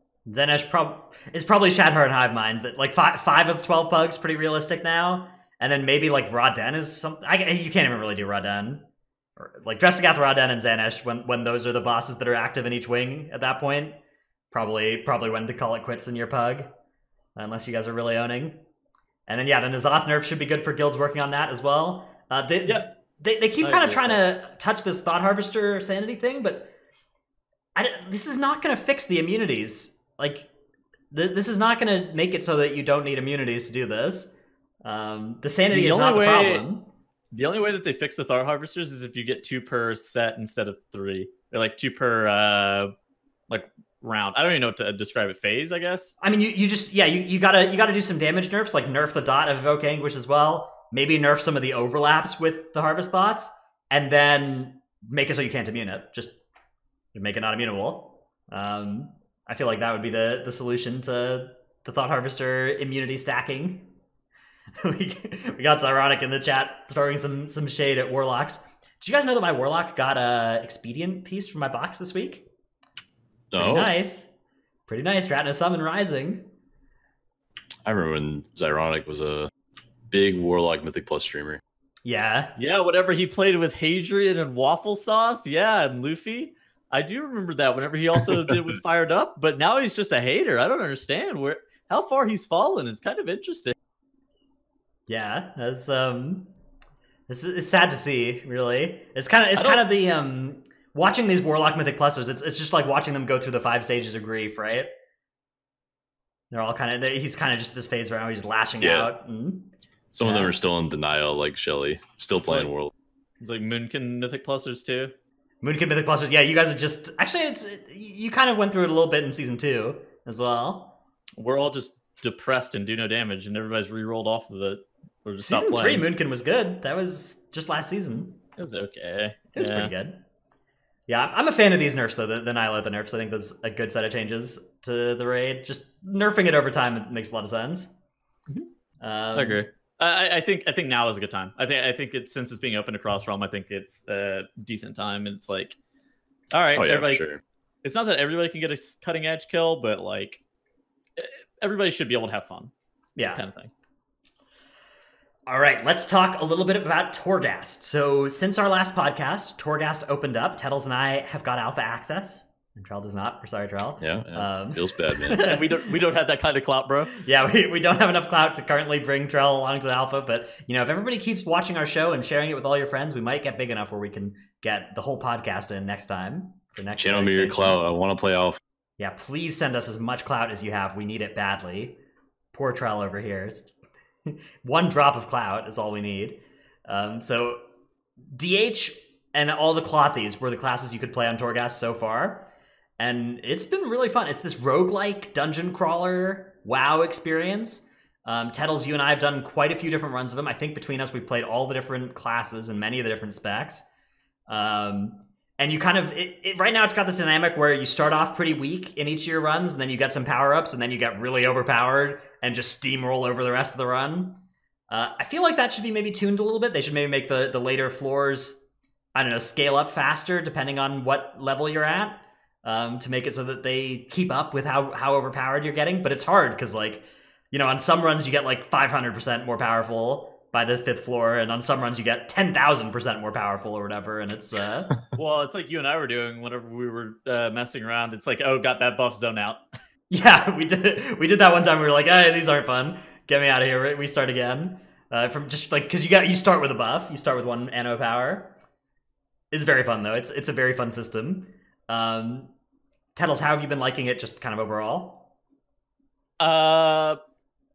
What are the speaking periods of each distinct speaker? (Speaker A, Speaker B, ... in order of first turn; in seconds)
Speaker A: 0.3-8.8, 9.4-13.9, 14.5-16.7, 17.4-18.6, 19.3-26.7, 27.8-30.5, 31.1-36.9, 46.2-56.4, 57.1-63.9, 64.8-72.5, 73.5-74.3, 74.9-76.5, 82.0-82.5, 95.1-96.5, 97.3-104.9, 106.5-109.7, 110.2-110.5, 115.6-120.9, 125.4-128.3, 129.5-130.2, 131.1-137.9, 139.0-139.6, 153.2-153.4, 155.5-165.6, 167.1-177.8, 179.0-182.0, 182.5-183.7, 184.2-187.6, 188.3-192.4, 193.0-203.8, 204.5-218.6, 219.1-234.9, 240.1-248.5, 249.5-252.5, 253.1-255.3
Speaker B: 23.6-24.2, 35.7-36.7, 37.3-42.9, 43.5-46.1, 82.5-93.7, 99.5-99.8, 113.4-115.1, 121.4-126.1, 128.6-129.9, 139.3-145.8, 146.5-147.2, 147.8-150.4, 151.2-152.7, 153.3-153.7, 165.3-167.1, 235.1-239.6, 256.4-257.2
Speaker C: 73.5-73.9, 77.8-79.5, 80.1-81.6, 108.8-109.1, 110.1-112.9, 146.8-147.4, 164.0-165.4, 177.0-178.6